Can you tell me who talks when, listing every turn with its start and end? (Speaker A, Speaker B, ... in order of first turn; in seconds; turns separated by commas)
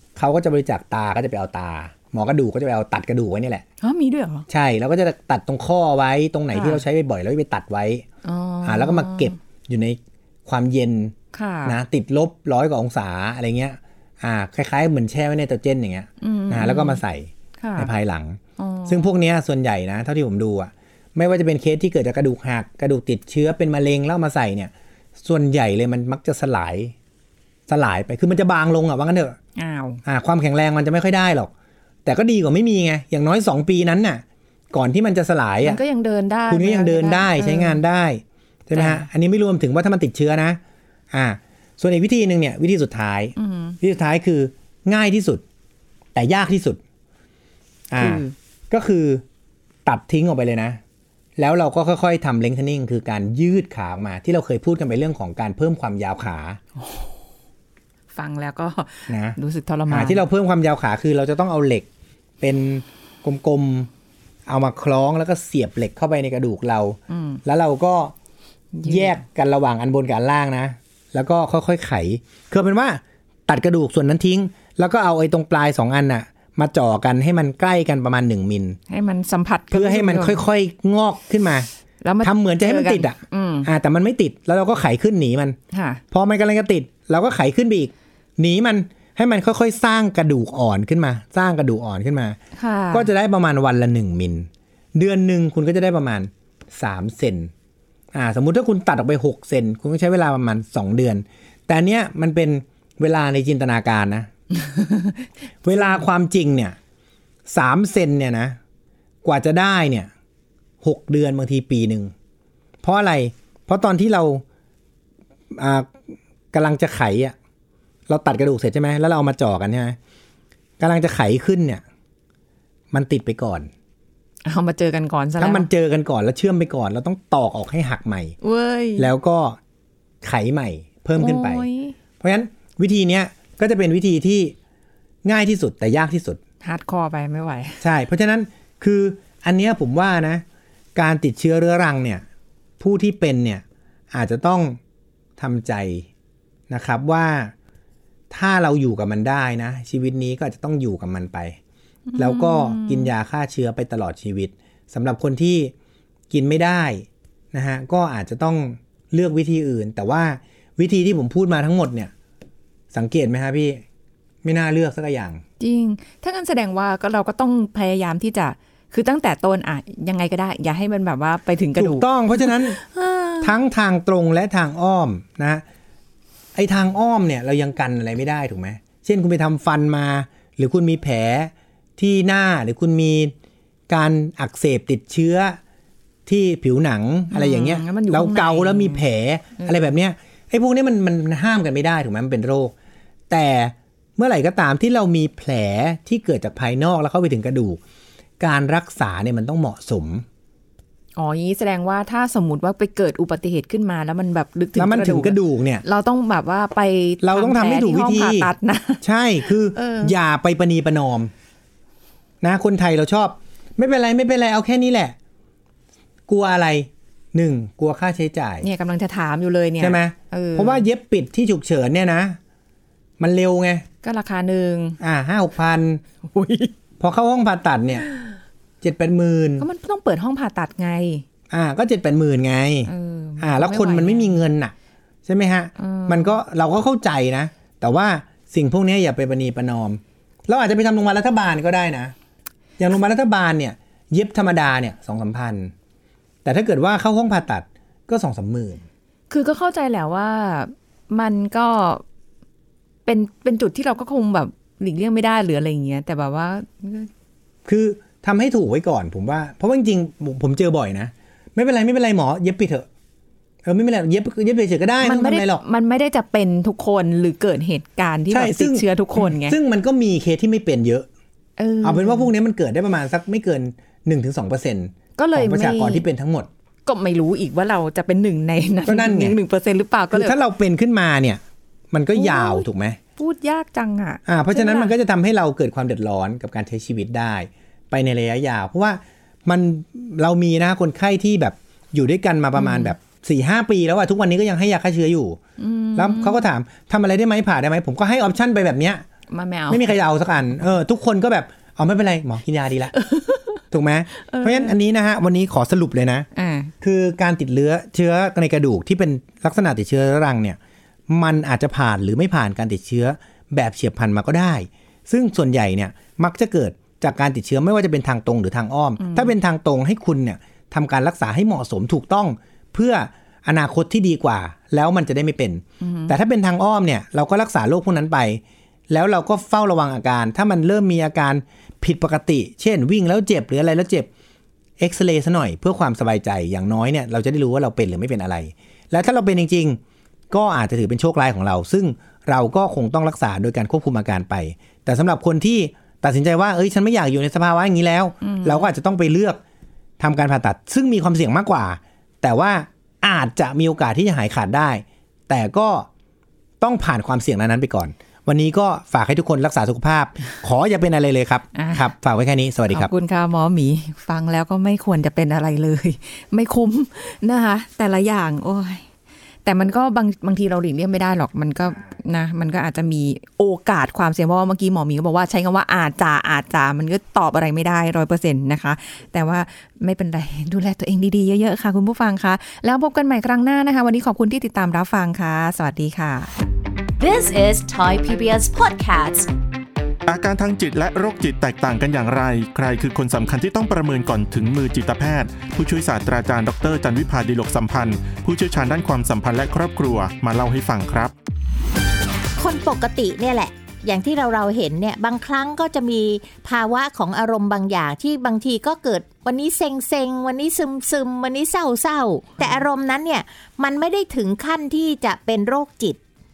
Speaker A: 0.2-3.6, Speaker B: 3.8-4.5, Speaker A: 4.5-8.1, Speaker B: 6.5-6.8, Speaker B: 8.2-9.3, Speaker A: 8.6-26.9, Speaker B: 11.3-11.8, Speaker B: 16.2-17.0, Speaker B: 17.6-17.9, Speaker B: 18.6-19.1, Speaker A: 27.7-29.4, Speaker B: 29.6-30.0, Speaker A: 30.1-31.5, Speaker A: 32.0-35.8, Speaker B: 35.6-37.8, Speaker A: 36.5-40.6, Speaker B: 38.7-39.1, Speaker A: 41.1-45.4, Speaker B: 43.4-43.8, Speaker A: 46.1-46.8, Speaker A: 47.9-49.2, Speaker B: 48.0-48.3, Speaker A: 49.9-50.8, Speaker A: 51.4-56.6, Speaker B: 56.8-57.1, Speaker B: 58.1-60.2, Speaker A: 59.1-59.4, Speaker A: 59.9-61.9, Speaker A: 62.4-63.9, Speaker A: 64.5-68.1, Speaker B: 67.1-67.4, Speaker B: 68.8-69.2, Speaker A: 68.8-78.8, Speaker B: 78.9-80.4, Speaker A: 79.7-81.7, Speaker B: 82.0-83.7, Speaker A: 82.2-85.6, Speaker B: 85.7-86.0, Speaker A: 86.1-92.4, Speaker B: 92.5-93.1, Speaker A: 92.9-97.5, Speaker A: 98.1-104.3, Speaker B: 104.5-106.0, Speaker A: 105.6-106.8, Speaker A: 107.5-108.6, Speaker A: 109.2-110.1, Speaker A: 110.8-112.1, Speaker A: 112.8-114.4, Speaker A: 115.5-116.0, Speaker A: 116.5-117.4, Speaker A: 118.1-120.0, Speaker A: 120.8-121.8, Speaker A: 122.9-123.7, Speaker B: 124.5-125.7, Speaker A: 125.4-128.4, Speaker B: 128.4-129.1, Speaker A: 129.0-129.6, Speaker A: 130.2-131.7, Speaker B: 131.2-132.0, Speaker A: 132.2-134.6, Speaker A: 135.2-136.4, Speaker B: 136.6-137.8, Speaker A: 137.8-140.4, Speaker A: 140.9-142.2, Speaker A: 142.8-144.8, Speaker A: 145.4-146.1, Speaker A: 146.7-147.5, Speaker A: 148.3-151.6, Speaker B: 152.1-153.1, Speaker A: 152.2-155.7, Speaker A: 156.3-162.1, Speaker A: 162.9-163.8, Speaker A: 164.4-165.4, Speaker B: 165.6-173.5, Speaker A: 171.8-172.8, Speaker A: 173.4-175.6, Speaker A: 176.6-183.3, Speaker A: 183.9-185.6, Speaker A: 186.3-192.7, Speaker B: 187.3-189.0, Speaker A: 193.3-197.8, Speaker A: 198.4-200.2, Speaker B: 201.2-210.1, Speaker A: 204.8-205.8, Speaker A: 207.2-211.3, Speaker A: 212.4-215.2, Speaker A: 216.3-218.7, Speaker B: 218.6-220.9, Speaker A: 219.8-222.4, Speaker A: 223.2-223.9, Speaker B: 224.0-225.0, Speaker A: 225.0-226.0, Speaker B: 226.2-226.7, Speaker A: 227.0-228.1, Speaker A: 228.8-229.7, Speaker B: 229.6-231.2, Speaker A: 231.5-234.7, Speaker B: 232.9-234.4, Speaker A: 235.3-242.1, Speaker B: 235.8-236.4, Speaker A: 242.8-245.7, Speaker A: 246.4-248.8, Speaker B: 249.3-252.0, Speaker B: 253.1-257.1, Speaker A: 257.6-262.9, Speaker A: 263.6-265.6, Speaker B: 265.0-269.6, Speaker A: 268.3-271.1, Speaker B: 271.6-272.3, Speaker A: 271.8-276.5, Speaker B: 275.2-276.1, Speaker B: 276.9-280.4, Speaker A: 278.9-279.4, Speaker A: 280.1-283.0, Speaker B: 282.1-282.7, Speaker B: 283.2-284.9, Speaker A: 284.3-295.4, Speaker B: 292.6-292.9, Speaker B: 295.6-296.5, Speaker A: 296.0-299.0, Speaker B: 299.3-300.0, Speaker A: 299.7-303.0, Speaker B: 303.0-303.6, Speaker A: 303.7-306.3, Speaker B: 304.3-304.8, Speaker B: 306.4-306.7, Speaker A: 306.8-310.6, Speaker A: 311.1-334.1, Speaker B: 319.0-319.3, Speaker B: 325.8-326.1, Speaker A: 334.8-339.8, Speaker A: 340.3-349.4, Speaker B: 348.2-348.7, Speaker A: 350.0-355.9, Speaker A: 356.6-362.9, Speaker B: 361.6-361.9, Speaker B: 362.7-368.9, Speaker B: 369.4-386.3, Speaker C: 387.0-389.3, Speaker D: 390.1-401.1, Speaker E: 402.4-416.0, Speaker B: 412.4-412.7